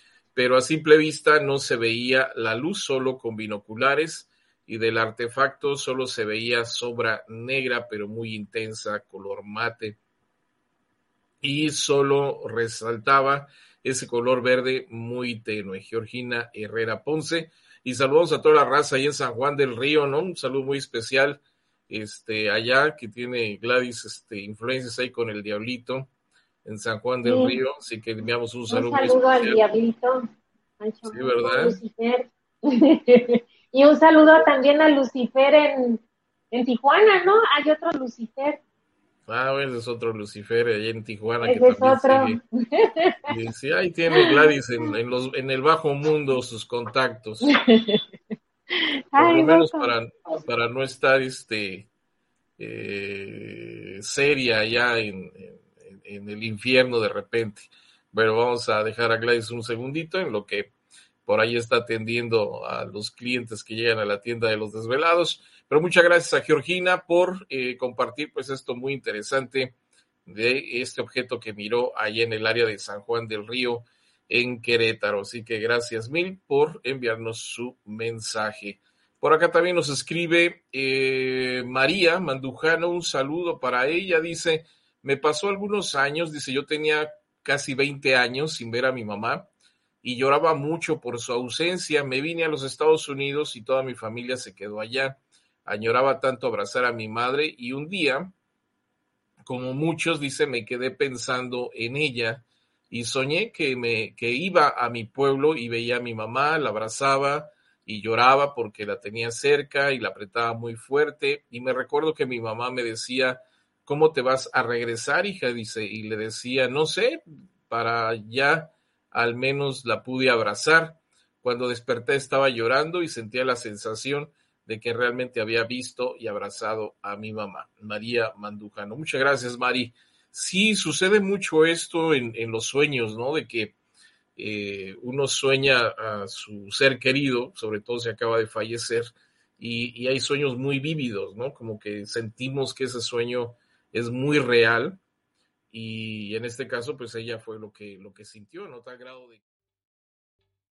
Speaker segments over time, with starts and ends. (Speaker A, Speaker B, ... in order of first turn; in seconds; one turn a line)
Speaker A: 0.3-10.0
Speaker A: 11.4-26.1
Speaker A: 26.6-29.6
Speaker B: 27.2-27.6
Speaker B: 28.7-30.2
Speaker B: 30.8-38.6
Speaker A: 31.1-31.8
Speaker A: 39.3-42.4
Speaker B: 41.4-43.2
Speaker A: 43.3-47.5
Speaker B: 44.1-44.4
Speaker B: 47.4-48.0
Speaker B: 49.1-49.9
Speaker A: 49.2-51.9
Speaker A: 52.6-60.7
Speaker A: 61.2-69.7
Speaker A: 70.3-89.5
Speaker A: 90.0-98.3
Speaker A: 99.5-133.7
Speaker A: 134.4-145.0
Speaker A: 145.7-149.4